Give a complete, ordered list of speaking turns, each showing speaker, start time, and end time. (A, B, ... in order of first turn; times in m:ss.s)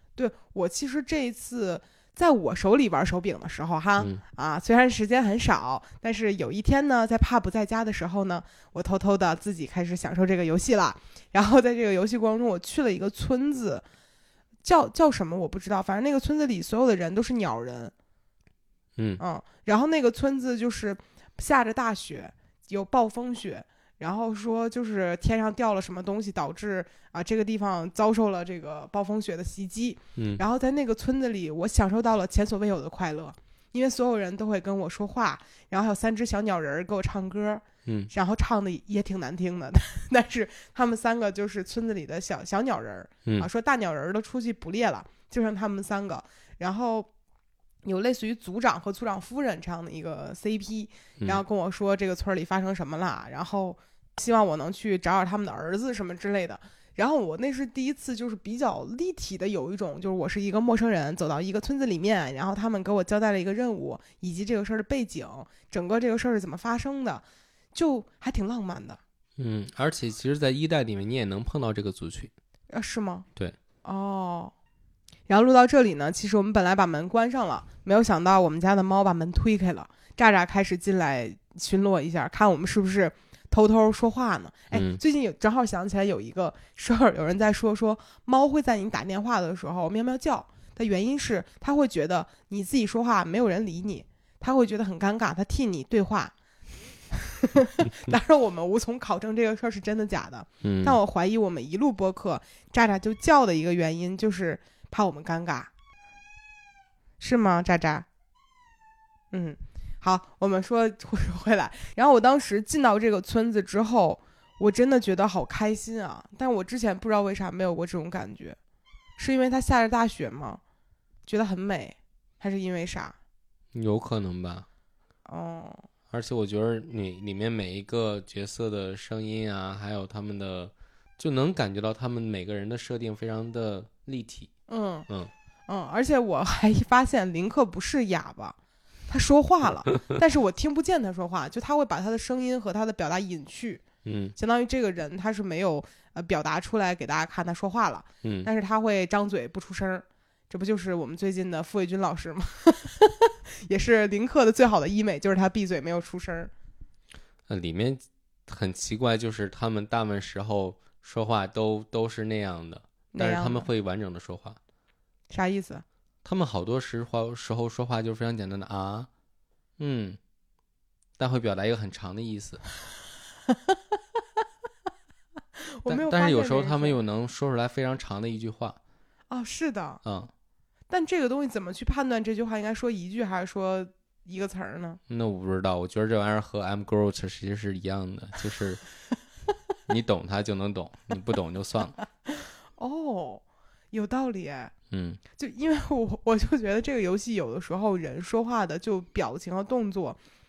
0:00.2-0:13.8 A
0:14.6-0:17.9 A
0:19.2-0:47.1 A
0:30.2-0:30.4 B
0:47.8-1:09.0 A
1:09.4-1:12.3 B
1:12.7-1:13.3 A
1:13.8-1:14.5 A
1:15.3-1:36.3 A
1:24.7-1:25.0 B
1:37.1-1:45.7 A
1:40.6-1:41.0 B
1:47.2-1:48.1 A
1:49.3-1:58.6 A
1:59.2-2:00.6 A
2:01.3-2:03.2 A
2:03.7-2:04.7 B
2:05.3-2:05.9 A
2:06.1-2:14.5 B
2:14.7-2:15.1 A
2:15.7-2:18.6 A
2:19.1-2:23.8 A
2:24.0-2:24.4 B
2:24.4-2:36.5 A
2:28.2-2:28.5 B
2:37.5-2:44.6 B
2:43.1-2:43.7 A
2:45.3-2:45.8 A
2:46.2-2:49.1 B
2:49.8-2:50.2 B
2:51.2-2:52.6 B
2:53.5-2:53.8 A
2:55.6-2:57.0 A
2:55.9-2:58.8 B
2:59.3-3:00.0 A
3:00.0-3:00.3 B
3:00.9-3:05.0 A
3:05.1-3:08.8 B
3:09.9-3:12.0 B
3:12.3-3:14.7 A
3:14.9-3:15.2 B
3:15.4-3:20.2 A